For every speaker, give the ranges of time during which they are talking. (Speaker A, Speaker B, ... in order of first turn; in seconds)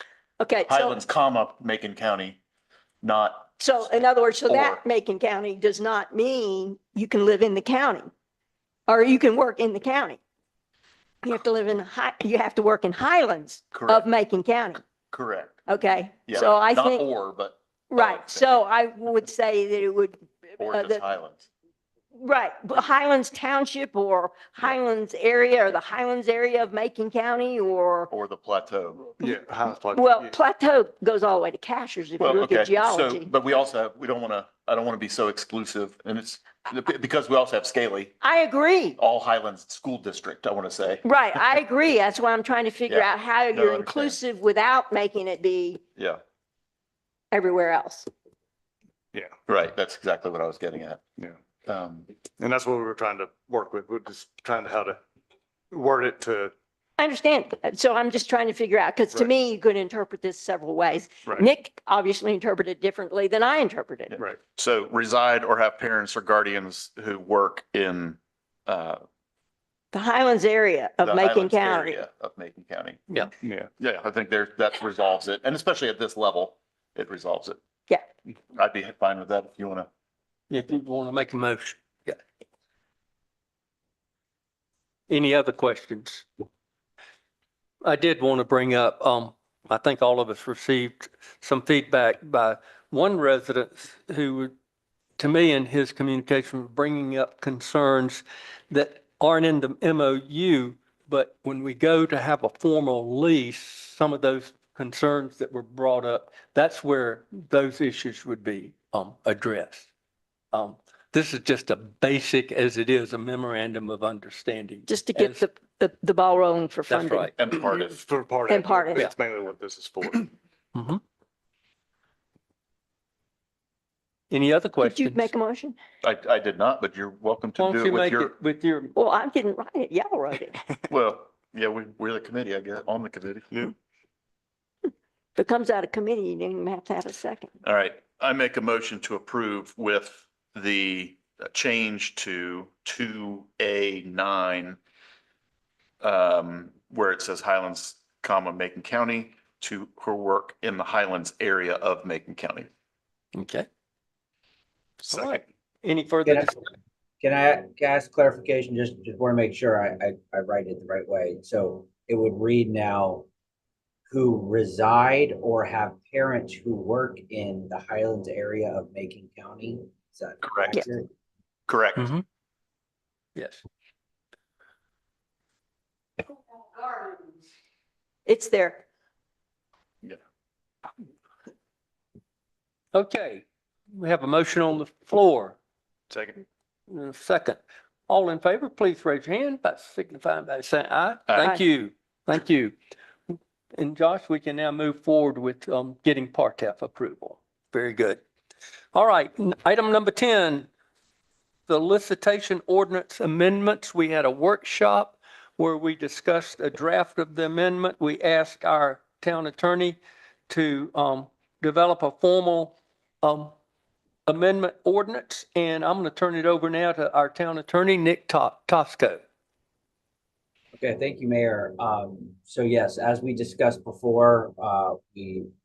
Speaker A: 0.4-1.0, 3.6-8.1, 8.9-10.2, 11.2-14.8, 15.7-17.1, 17.9-21.0, 22.1-28.1, 29.9-33.3, 38.2-39.0, 41.0-45.8, 47.3-48.1, 57.0-64.1, 69.9-72.0, 114.9-117.3, 118.5-119.1, 124.8-125.8, 128.9-130.6, 135.3-137.5, 178.2-178.8, 191.4-191.6
Speaker B: 0.7-2.4, 3.0-4.8, 13.7-14.1, 15.1-15.6, 16.3-18.6, 20.6-21.5, 28.1-29.0, 32.2-38.1, 39.0-41.0, 42.9-44.2, 49.5-51.0, 51.6-52.1, 64.1-69.0, 71.0-73.0, 73.8-77.6, 78.5-79.9, 117.4-118.0, 126.0-128.3, 130.9-133.6, 137.6-144.8, 146.0-152.7, 170.4-170.7, 171.7-172.1
Speaker C: 29.2-30.4, 52.4-55.0, 55.7-56.5, 73.4-73.7, 117.9-120.3, 155.1-155.4, 186.1-186.4
Speaker D: 80.5-82.2, 85.1-86.3, 87.8-94.5, 95.2-109.9, 110.5-115.5, 116.9-117.7, 120.7-121.0, 124.3-125.3, 127.6-128.9, 153.3-153.7, 155.1-156.6, 172.0-172.2, 173.3-173.6, 182.9-185.6, 186.9-192.8, 193.3-198.2, 198.9-200.7, 201.7-213.5, 214.3-219.2
Speaker E: 156.2-156.5, 157.2-163.2, 164.1-171.1, 220.7-225.5